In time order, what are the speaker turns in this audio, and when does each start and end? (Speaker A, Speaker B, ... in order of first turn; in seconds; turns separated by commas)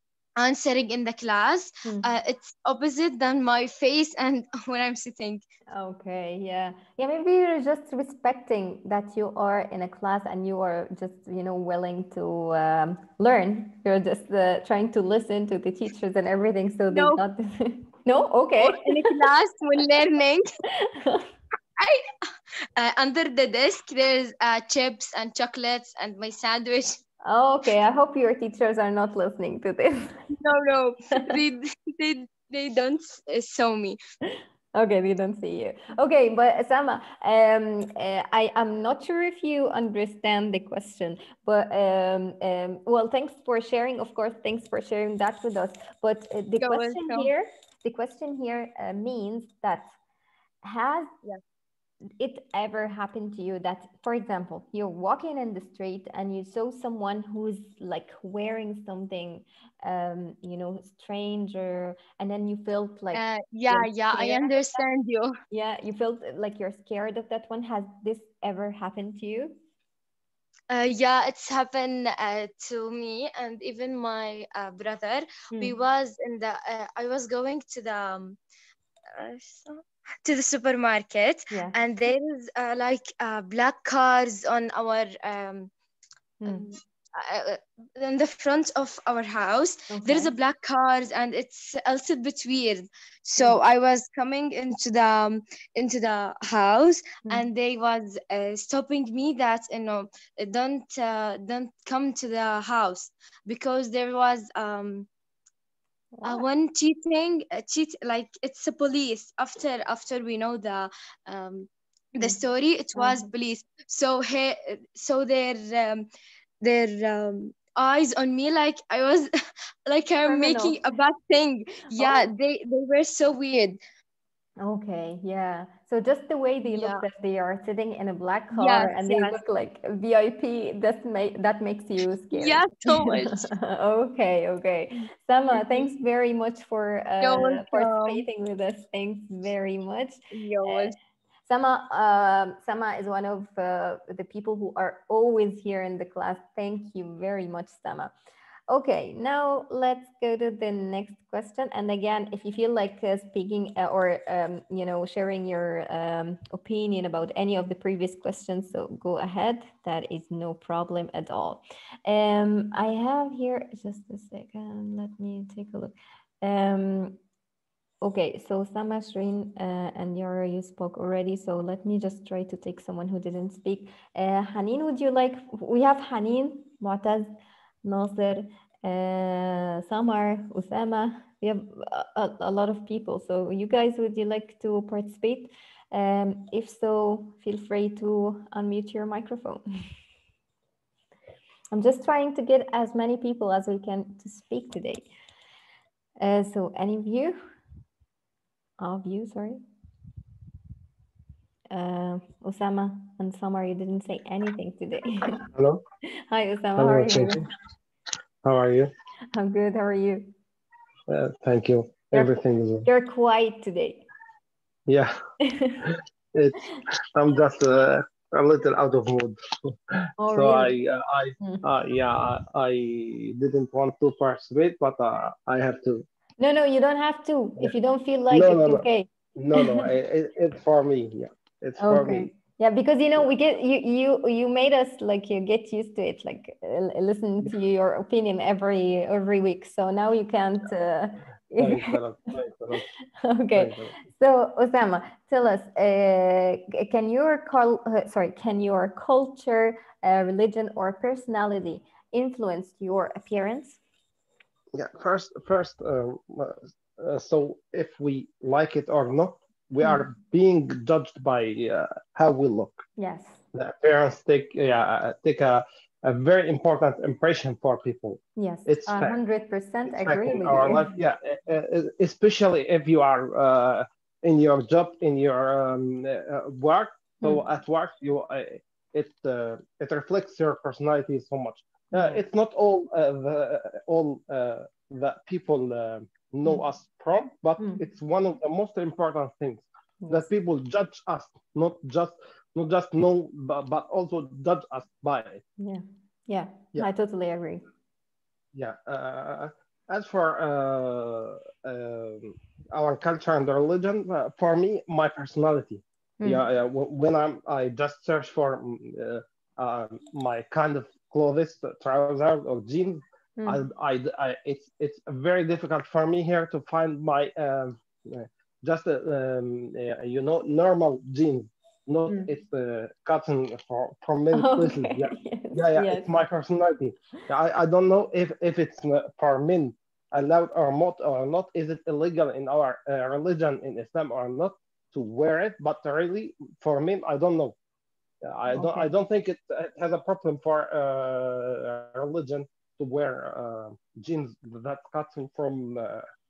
Speaker A: 0.4-5.4, Speaker B: 1.8-2.1, Speaker B: 5.7-19.1, Speaker A: 16.9-17.2, Speaker A: 18.6-20.5, Speaker B: 20.8-21.3, Speaker A: 21.8-22.0, Speaker A: 22.8-27.0, Speaker B: 27.2-30.1, Speaker A: 30.4-34.0, Speaker B: 34.7-49.9, Speaker A: 46.6-47.3, Speaker B: 50.6-51.1, Speaker B: 52.2-64.8, Speaker A: 63.1-65.3, Speaker B: 65.5-69.5, Speaker A: 70.7-78.4, Speaker A: 79.1-85.7, Speaker B: 86.4-86.7, Speaker A: 86.5-105.1, Speaker B: 89.9-90.3, Speaker B: 106.1-106.4, Speaker A: 106.2-116.1, Speaker B: 112.9-113.2, Speaker A: 116.6-119.3, Speaker A: 119.9-123.8, Speaker B: 120.2-120.8, Speaker B: 121.9-122.3, Speaker B: 124.6-140.9, Speaker A: 126.7-127.0, Speaker A: 128.5-129.4, Speaker A: 132.3-133.4, Speaker A: 135.5-135.9, Speaker A: 137.2-138.2, Speaker A: 140.3-140.9, Speaker B: 141.5-148.1, Speaker B: 148.7-167.2, Speaker B: 168.0-177.3, Speaker B: 177.8-189.6, Speaker B: 191.7-195.1, Speaker B: 196.2-197.4, Speaker B: 198.8-199.6, Speaker B: 201.7-205.4, Speaker C: 205.5-205.8, Speaker B: 206.3-207.4, Speaker C: 206.8-207.4, Speaker C: 208.4-208.9, Speaker B: 209.3-210.3, Speaker C: 211.1-212.8, Speaker B: 212.8-214.0, Speaker C: 214.9-215.1, Speaker B: 215.4-215.9, Speaker C: 216.3-216.6, Speaker C: 217.2-226.0, Speaker B: 220.2-220.7, Speaker B: 221.4-221.7, Speaker B: 226.4-229.8, Speaker C: 228.3-228.8, Speaker C: 229.3-232.3, Speaker B: 231.8-242.0, Speaker C: 241.6-242.8, Speaker B: 243.2-253.8, Speaker C: 243.6-243.9, Speaker C: 254.7-262.8, Speaker B: 259.8-260.1, Speaker B: 263.0-263.4, Speaker C: 263.5-269.1, Speaker B: 268.4-270.9, Speaker C: 269.9-295.4, Speaker B: 281.9-282.2, Speaker B: 290.0-290.3, Speaker B: 295.6-297.6, Speaker C: 298.5-337.5, Speaker B: 306.2-306.4, Speaker B: 313.4-313.6, Speaker B: 324.3-326.2, Speaker C: 338.2-346.0, Speaker B: 338.5-338.9